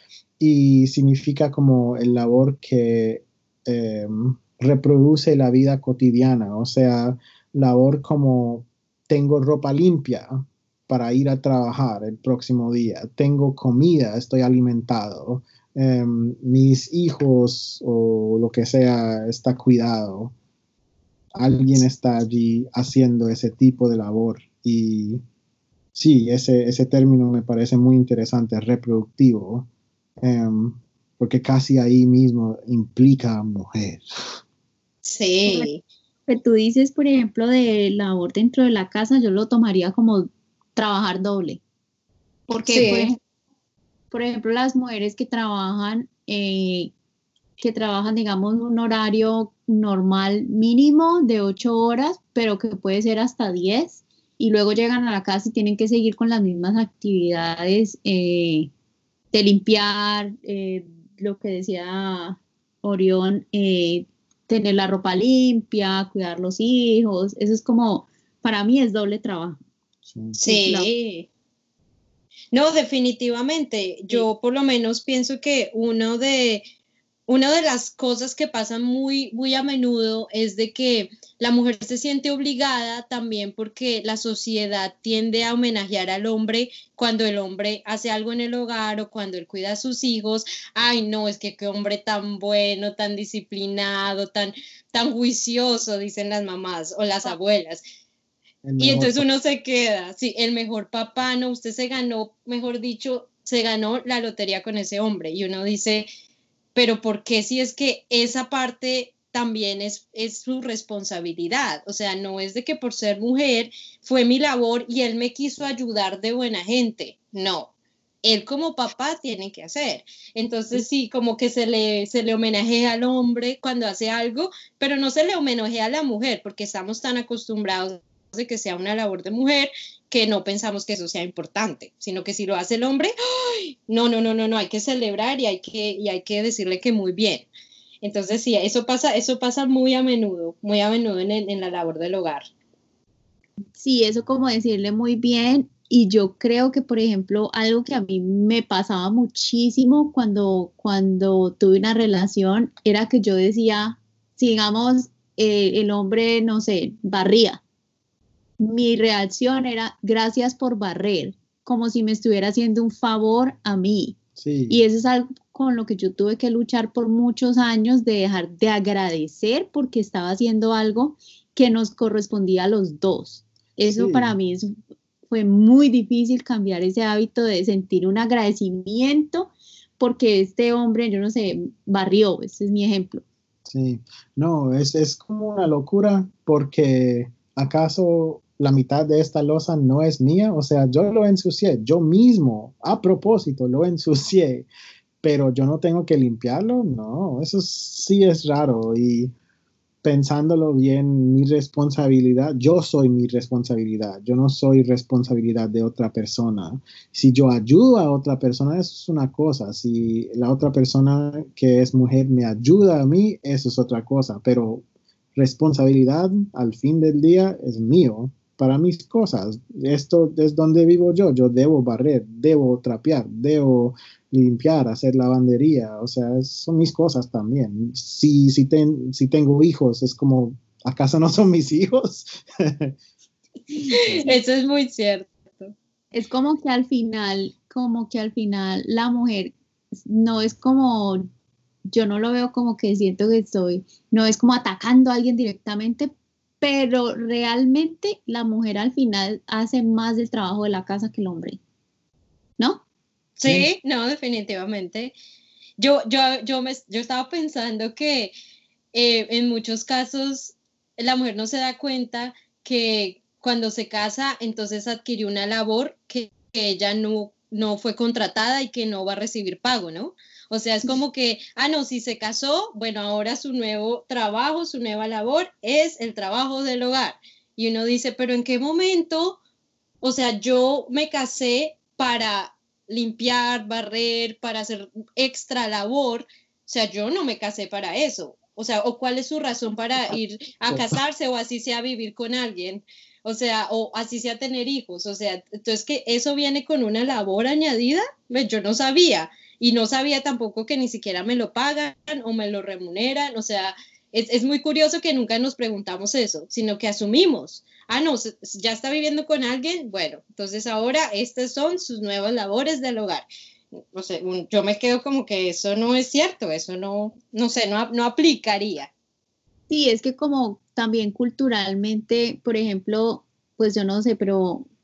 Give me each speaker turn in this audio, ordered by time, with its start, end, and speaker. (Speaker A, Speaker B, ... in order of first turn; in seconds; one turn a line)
Speaker A: 0.4-20.3
Speaker A: 21.4-25.2
Speaker A: 25.9-29.7
Speaker A: 30.2-34.0
Speaker B: 35.0-35.8
Speaker C: 36.3-41.6
Speaker C: 42.5-43.2
Speaker B: 42.6-43.1
Speaker C: 44.1-46.9
Speaker C: 47.6-58.7
Speaker C: 59.3-69.6
Speaker A: 70.1-70.4
Speaker B: 70.4-71.3
Speaker C: 70.4-70.9
Speaker B: 72.5-76.7
Speaker B: 77.3-97.8
Speaker A: 98.6-99.3
Speaker B: 98.8-106.1
Speaker B: 106.8-117.7
Speaker B: 118.2-137.5
Speaker B: 138.0-142.5
Speaker C: 143.8-157.6
Speaker C: 158.6-164.2
Speaker A: 164.4-164.8
Speaker C: 164.7-174.7
Speaker A: 173.8-174.4
Speaker C: 175.3-183.2
Speaker A: 183.7-194.7
Speaker A: 195.2-199.3
Speaker A: 200.0-214.8
Speaker A: 215.4-233.0
Speaker B: 233.9-235.7
Speaker C: 233.9-234.3
Speaker C: 236.1-241.3
Speaker C: 241.9-246.1
Speaker C: 246.6-251.6
Speaker C: 252.6-252.8
Speaker B: 253.4-255.2
Speaker A: 253.4-253.7
Speaker B: 255.8-258.3
Speaker B: 258.9-279.4
Speaker B: 280.0-313.3
Speaker A: 290.7-291.0
Speaker B: 313.8-318.9
Speaker C: 319.7-324.6